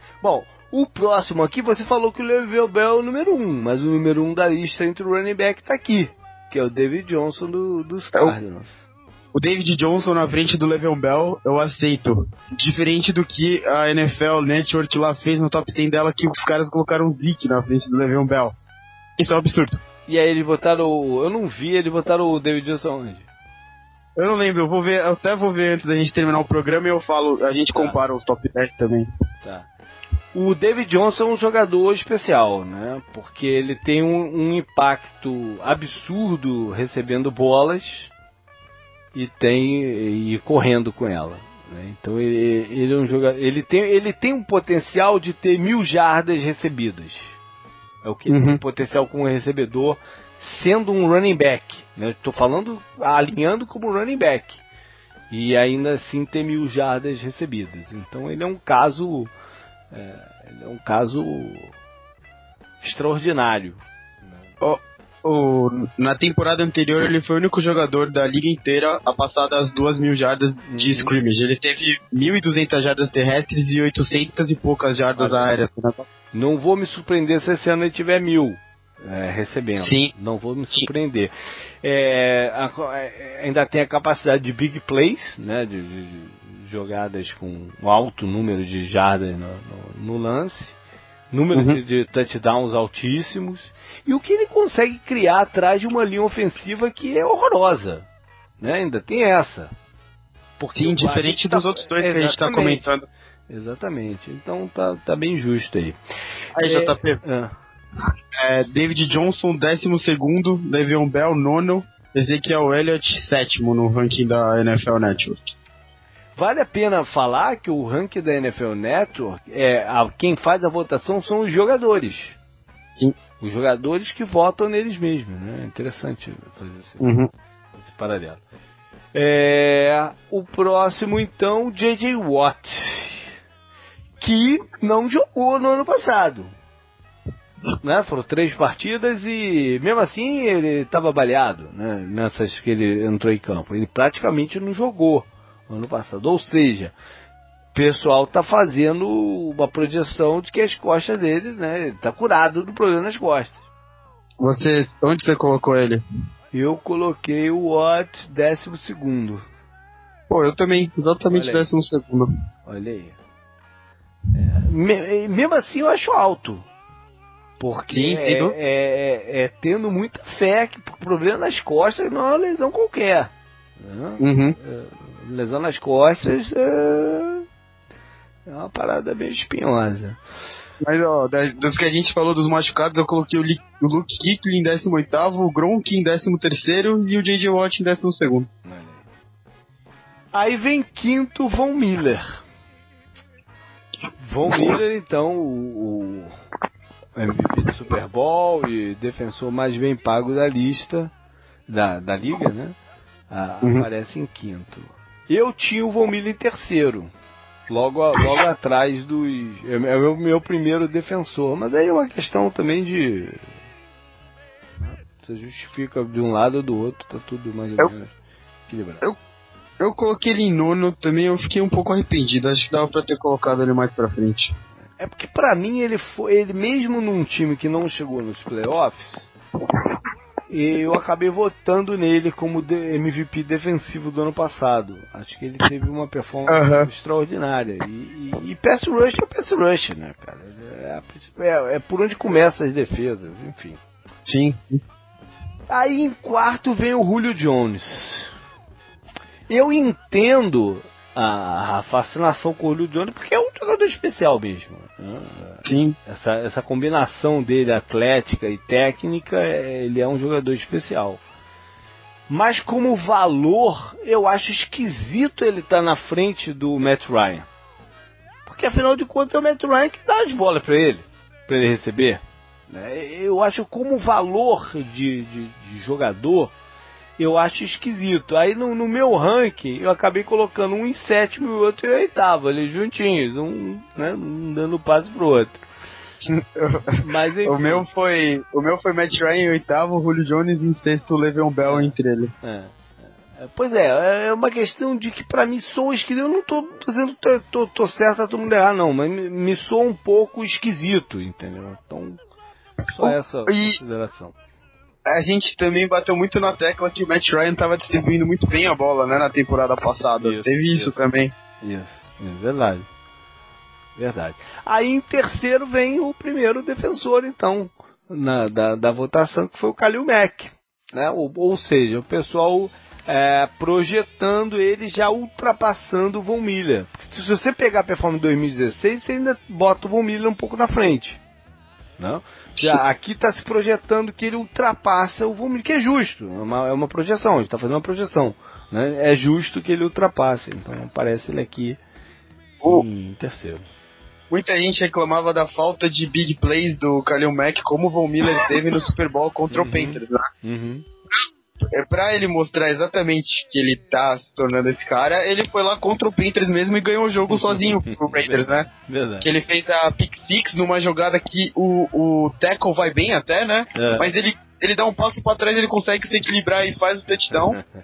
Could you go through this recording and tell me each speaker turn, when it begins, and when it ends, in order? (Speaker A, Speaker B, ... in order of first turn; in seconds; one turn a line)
Speaker A: 0.2-8.8
Speaker B: 9.3-18.6
Speaker B: 19.2-19.8
Speaker A: 20.1-23.3
Speaker B: 24.1-29.1
Speaker A: 27.7-28.0
Speaker A: 29.4-29.7
Speaker A: 30.3-38.1
Speaker A: 39.1-47.4
Speaker A: 48.0-54.6
Speaker B: 48.3-48.6
Speaker A: 55.3-59.3
Speaker A: 59.9-61.7
Speaker A: 62.8-64.5
Speaker B: 64.6-76.0
Speaker A: 70.7-71.2
Speaker A: 75.2-75.5
Speaker A: 76.3-81.3
Speaker B: 79.8-80.1
Speaker A: 81.8-90.8
Speaker A: 91.3-98.1
Speaker B: 91.5-91.8
Speaker A: 98.6-99.7
Speaker A: 100.6-102.9
Speaker B: 100.7-103.0
Speaker A: 103.5-106.0
Speaker B: 106.5-107.2
Speaker A: 106.6-107.5
Speaker B: 108.4-115.5
Speaker A: 116.3-122.4
Speaker A: 123.4-127.0
Speaker B: 127.0-127.3
Speaker A: 127.8-128.4
Speaker A: 129.1-133.3
Speaker A: 134.2-136.5
Speaker A: 137.8-146.9
Speaker A: 147.7-153.6
Speaker B: 154.4-156.0
Speaker A: 156.5-159.4
Speaker B: 160.3-162.3
Speaker A: 161.3-161.6
Speaker A: 162.7-163.2
Speaker A: 164.3-166.7
Speaker A: 167.6-177.4
Speaker B: 167.9-168.5
Speaker B: 174.2-174.6
Speaker A: 178.4-180.2
Speaker B: 180.8-188.5
Speaker A: 188.6-189.0
Speaker A: 190.3-192.4
Speaker A: 194.2-196.3
Speaker A: 197.2-201.1
Speaker A: 201.7-202.8
Speaker A: 203.3-207.1
Speaker B: 203.6-203.9
Speaker A: 207.7-213.5
Speaker A: 214.8-218.1
Speaker A: 218.7-219.0
Speaker B: 219.8-224.5
Speaker A: 225.0-229.3
Speaker A: 230.5-243.8
Speaker B: 236.5-236.9
Speaker B: 244.2-244.8
Speaker A: 245.7-248.3
Speaker A: 249.5-261.2
Speaker B: 255.6-255.9
Speaker A: 262.3-267.5
Speaker A: 268.4-276.5
Speaker A: 277.2-285.6
Speaker B: 286.2-292.4
Speaker A: 287.0-287.9
Speaker A: 291.6-302.2
Speaker B: 302.9-303.8
Speaker A: 302.9-304.3
Speaker B: 305.1-311.3
Speaker A: 310.2-311.0
Speaker A: 311.6-312.9
Speaker A: 314.0-331.2
Speaker A: 332.0-341.8
Speaker A: 342.6-343.6
Speaker B: 344.3-350.3
Speaker A: 349.5-350.9
Speaker B: 351.7-358.7
Speaker A: 357.3-359.3
Speaker B: 359.2-367.6
Speaker A: 363.7-364.1